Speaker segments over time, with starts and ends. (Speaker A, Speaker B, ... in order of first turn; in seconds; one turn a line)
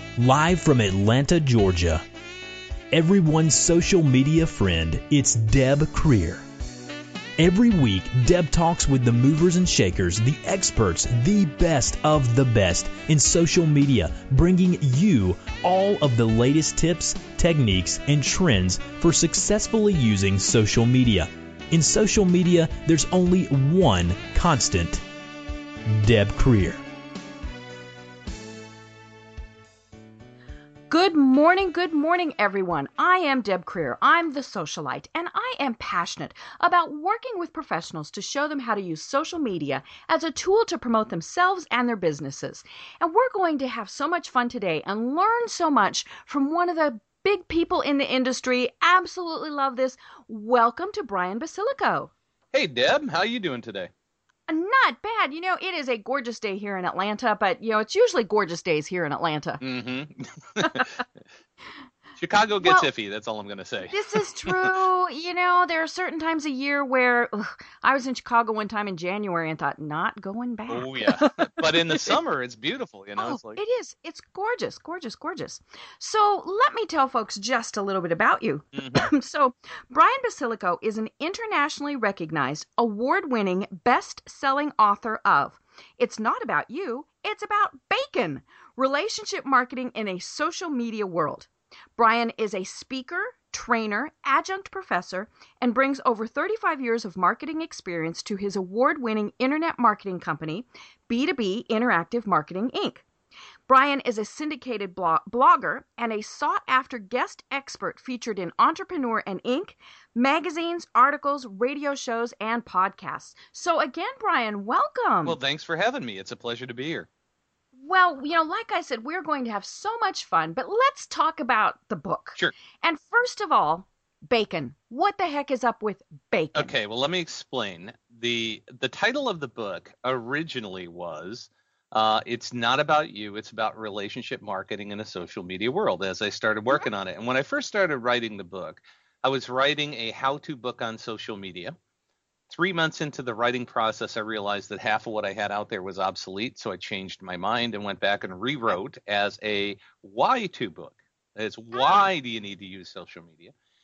Speaker A: 0.2-2.0
Speaker A: 2.9-6.4
Speaker A: 7.4-25.0
Speaker A: 25.9-26.8
Speaker B: 30.9-52.1
Speaker C: 52.5-53.9
Speaker B: 54.5-59.6
Speaker C: 59.6-60.9
Speaker B: 60.6-60.9
Speaker C: 62.2-64.7
Speaker B: 62.6-62.9
Speaker B: 63.9-72.1
Speaker C: 70.7-73.6
Speaker B: 73.2-103.0
Speaker C: 78.7-79.1
Speaker B: 103.7-115.4
Speaker C: 115.2-117.1
Speaker B: 117.8-126.7
Speaker C: 126.5-141.8
Speaker C: 142.5-153.5
Speaker B: 151.7-152.0